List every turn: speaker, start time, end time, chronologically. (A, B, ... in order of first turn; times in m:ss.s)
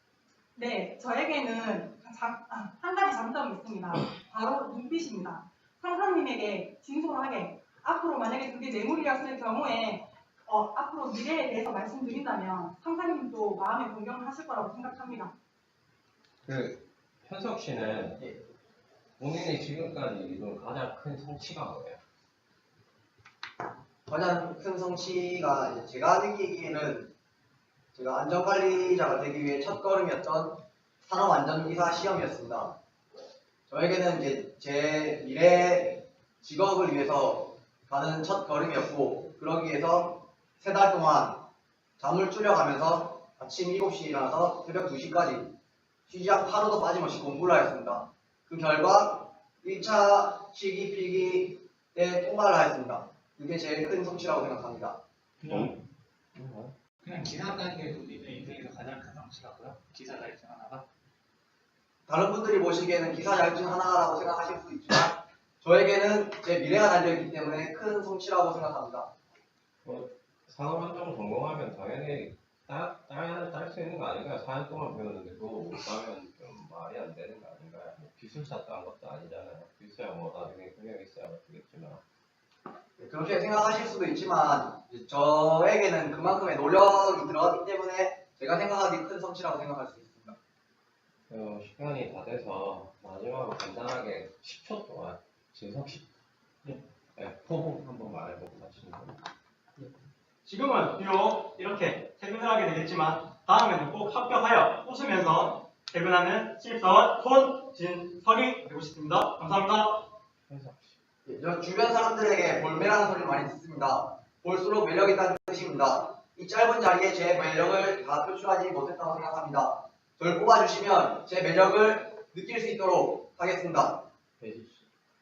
0:00.6-0:15.3 A
0:16.4-0:18.3 B
0:19.2-0:22.0 B
0:24.1-0:27.1 C
0:27.9-0:32.8 C
0:33.7-0:41.4 C
0:42.0-0:45.5 C
0:46.1-0:55.0 C
0:55.4-0:55.8 D
0:55.5-0:55.8 B
0:56.3-0:56.7 B
0:57.0-1:00.8 D
1:02.1-1:09.1 C
1:09.8-1:22.0 B
1:23.0-1:30.4 C
1:31.3-1:36.0 B
1:37.1-1:39.2 B
1:40.4-1:50.1 E
1:50.5-1:51.0 B
1:51.2-2:04.0 C
2:04.4-2:04.9 B